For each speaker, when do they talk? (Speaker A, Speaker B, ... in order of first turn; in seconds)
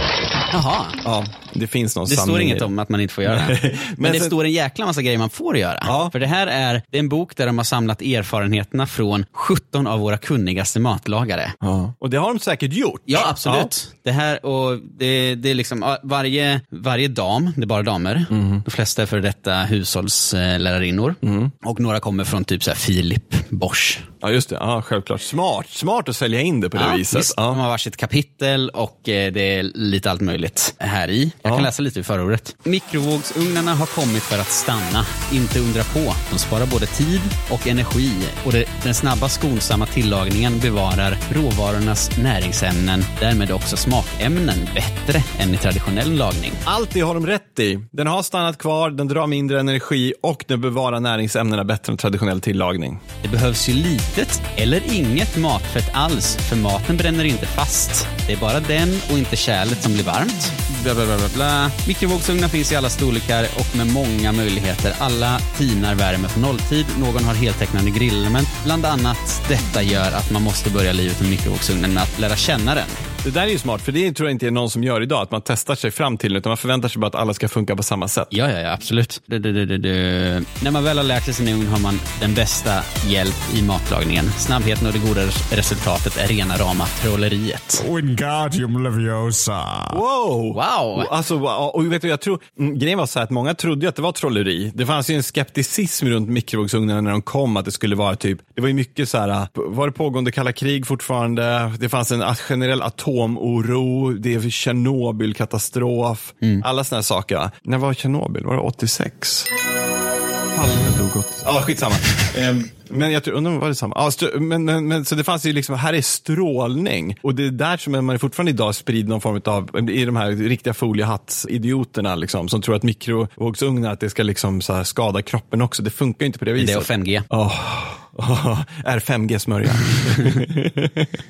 Speaker A: 0.5-1.0, 2.1-11.6, 13.1-24.1, 26.8-46.6, 53.2-73.0, 78.3-87.8, 90.5-91.1, 126.6-127.3, 130.1-130.4
Speaker B: 1.0-2.7, 3.3-4.3, 5.9-6.1, 11.6-13.7, 18.3-18.6, 21.2-21.5, 24.2-27.6, 46.7-53.0, 73.2-78.3, 89.9-109.5, 110.5-131.1
Speaker C: 87.8-90.0